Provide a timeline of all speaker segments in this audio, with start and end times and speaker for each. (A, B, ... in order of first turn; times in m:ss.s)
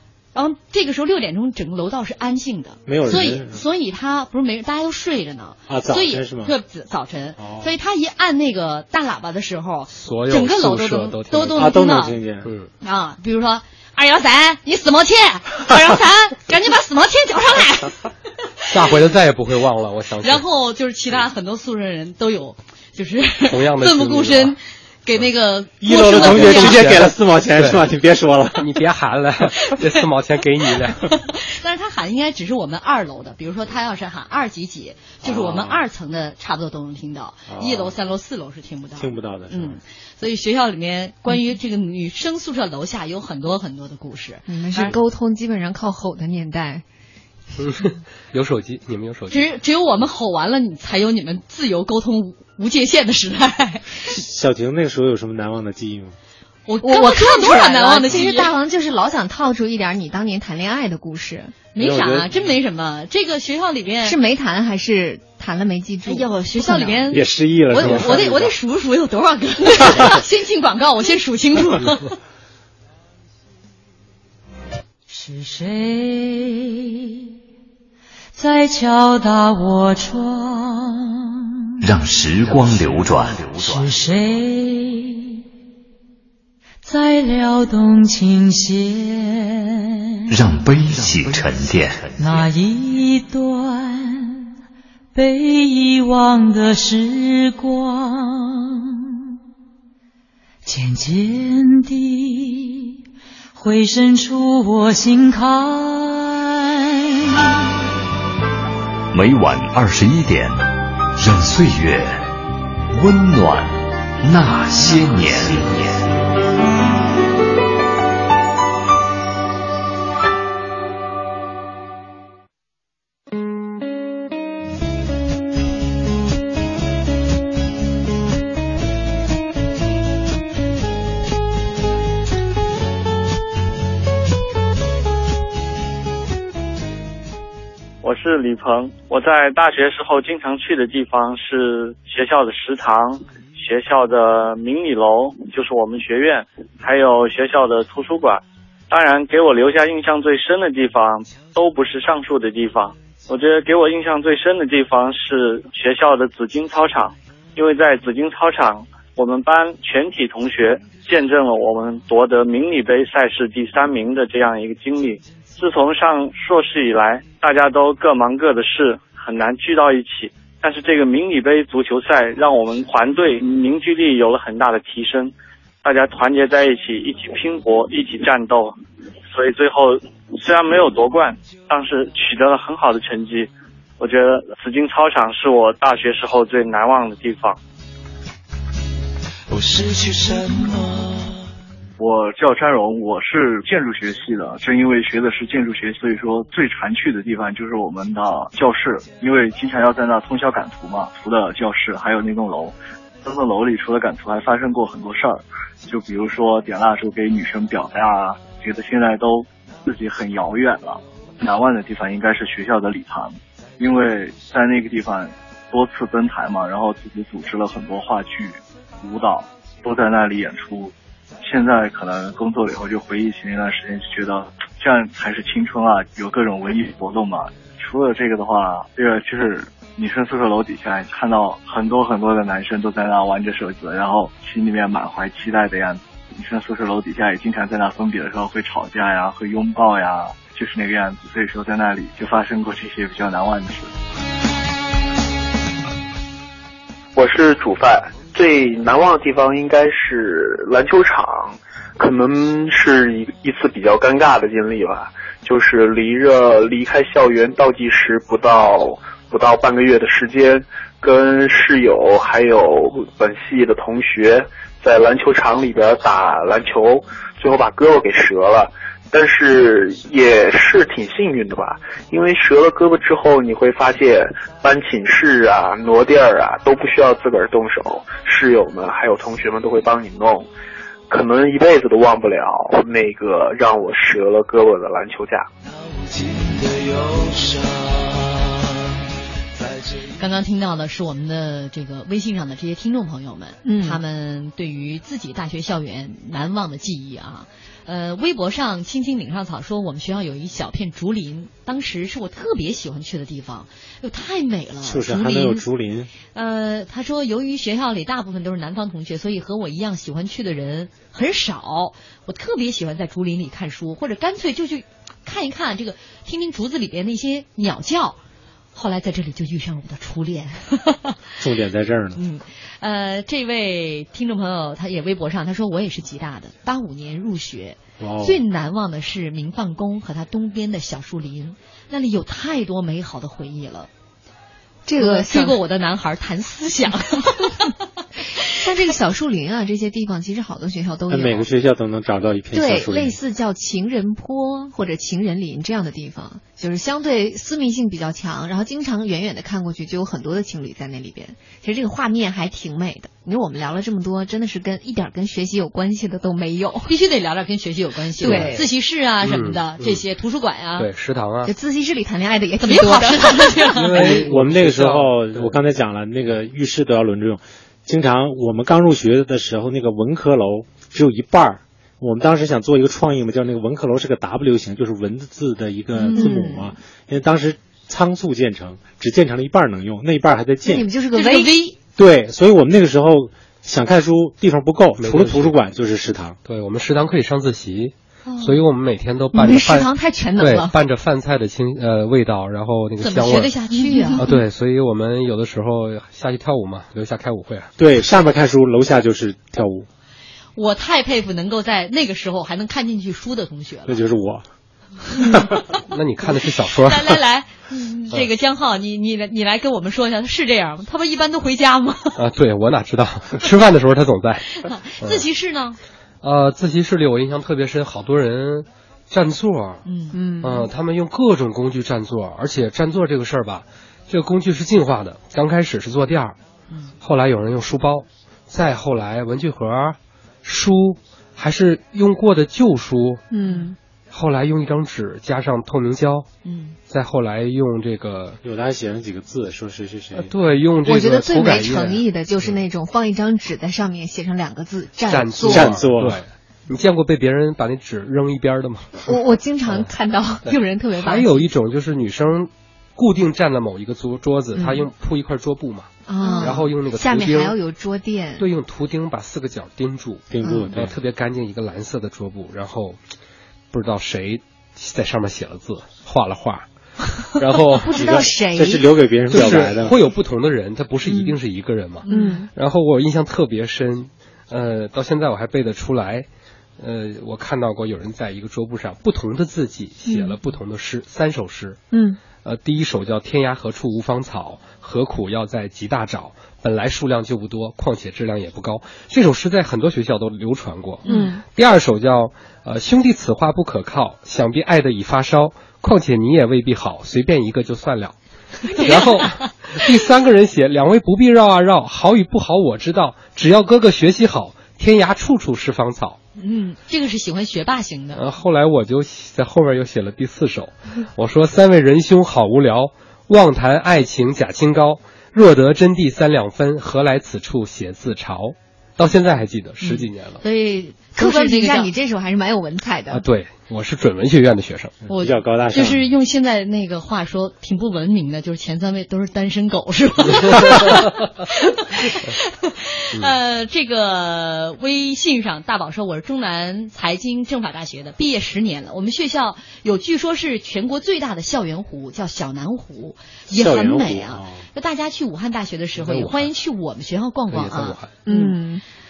0:00.3-0:12.2 A
0:02.9-0:03.6 B
0:05.7-0:06.5 B
0:07.4-0:07.7 B
0:09.9-0:11.7 C
0:11.6-0:12.5 B
0:12.4-0:12.7 C
0:12.8-0:18.0 A
0:18.6-0:18.9 A
0:18.7-0:20.4 C
0:20.2-0:26.9 A
0:23.5-0:24.5 C
0:25.8-0:28.7 B
0:25.9-0:27.8 C
0:28.6-0:31.1 C
0:31.0-0:44.9 A
0:35.2-0:35.8 B
0:37.5-0:37.9 B
0:39.0-0:39.8 B
0:44.5-0:46.8 D
0:47.6-0:49.5 C
0:49.3-0:53.9 A
0:54.1-0:56.2 B
0:56.6-0:58.5 A
0:56.8-1:01.6 D
1:01.7-1:04.2 A
1:01.8-1:02.5 B
1:04.0-1:07.0 D
1:06.0-1:12.2 A
1:07.1-1:08.5 B
1:09.8-1:10.1 B
1:15.1-1:17.2 E
1:18.3-1:21.5 E
1:21.8-1:23.9 F
1:23.6-1:25.4 E
1:26.8-1:34.5 E
1:30.3-1:32.5 F
1:35.1-1:39.2 E
1:40.6-1:42.9 E
1:43.5-1:47.3 E
1:49.1-1:50.6 F
1:51.2-1:52.2 F
1:52.9-1:56.1 F
2:18.0-2:58.8 G
2:59.3-3:07.6 G
3:09.5-3:11.5 H
3:12.0-4:03.9 I
4:07.1-4:40.5 J
4:41.1-4:45.5 J
4:45.6-4:48.9 H
4:49.5-4:50.3 H
4:50.2-5:05.6 A
4:53.6-4:54.0 D
5:04.8-5:06.1 B
5:06.3-5:18.2 A
5:18.7-5:21.2 A
5:21.4-5:22.2 B
5:22.1-5:33.9 A
5:28.0-5:28.4 B
5:34.8-5:35.6 D
5:35.0-5:37.7 A
5:38.5-5:41.5 D
5:41.1-5:43.2 B
5:42.5-5:56.9 D
5:56.8-6:00.9 A
5:58.2-5:58.7 D
5:58.2-5:58.6 C
5:59.2-6:00.0 C
6:00.8-6:01.5 C
6:01.4-6:04.2 D
6:02.6-6:04.2 A
6:03.7-6:05.6 C
6:04.0-6:20.9 B
6:15.9-6:16.7 D
6:20.6-6:21.7 D
6:21.1-6:21.7 A
6:22.0-6:26.4 B
6:25.0-6:25.5 C
6:26.4-6:33.5 C
6:29.3-6:30.8 D
6:33.0-6:34.2 A
6:33.7-6:34.4 D
6:34.2-6:37.7 C
6:37.8-6:39.9 B
6:40.6-6:44.0 A
6:43.9-6:44.4 B
6:45.2-6:45.5 A
6:45.9-6:47.2 C
6:46.7-6:52.2 A
6:52.2-6:54.5 C
6:54.5-6:55.8 A
6:56.2-6:59.8 C
6:59.8-7:00.2 A
7:00.1-7:00.7 D
7:00.4-7:06.4 C
7:07.0-7:13.2 C
7:13.3-7:13.8 D
7:14.1-7:16.3 C
7:16.4-7:16.8 A
7:16.9-7:18.4 C
7:18.4-7:20.3 B
7:20.1-7:22.5 C
7:20.8-7:25.8 D
7:25.1-7:29.1 C
7:25.5-7:26.2 B
7:29.0-7:31.5 D
7:30.4-7:37.6 C
7:34.6-7:34.8 D
7:36.1-7:38.5 D
7:36.2-7:36.6 A
7:38.4-7:43.0 C
7:40.3-7:40.9 B
7:40.4-7:40.7 D
7:43.7-7:46.6 C
7:47.2-7:48.2 C
7:47.8-7:49.6 D
7:47.9-7:49.9 B
7:49.3-7:56.3 C
7:51.0-7:51.4 D
7:52.0-7:52.4 A
7:52.1-7:52.5 D
7:56.8-8:01.8 C
8:00.0-8:00.4 D
8:01.9-8:02.2 D
8:02.4-8:18.2 C
8:11.0-8:11.3 A
8:11.0-8:11.4 D
8:18.7-8:26.2 C
8:18.7-8:19.4 A
8:26.4-8:28.2 A
8:28.1-8:40.4 C
8:39.8-8:41.9 A
8:41.2-8:43.2 D
8:43.1-8:45.0 C
8:45.1-8:46.0 B
8:45.1-9:08.6 A
9:03.5-9:04.6 B
9:06.0-9:06.5 C
9:07.5-9:08.1 C
9:08.2-9:08.8 D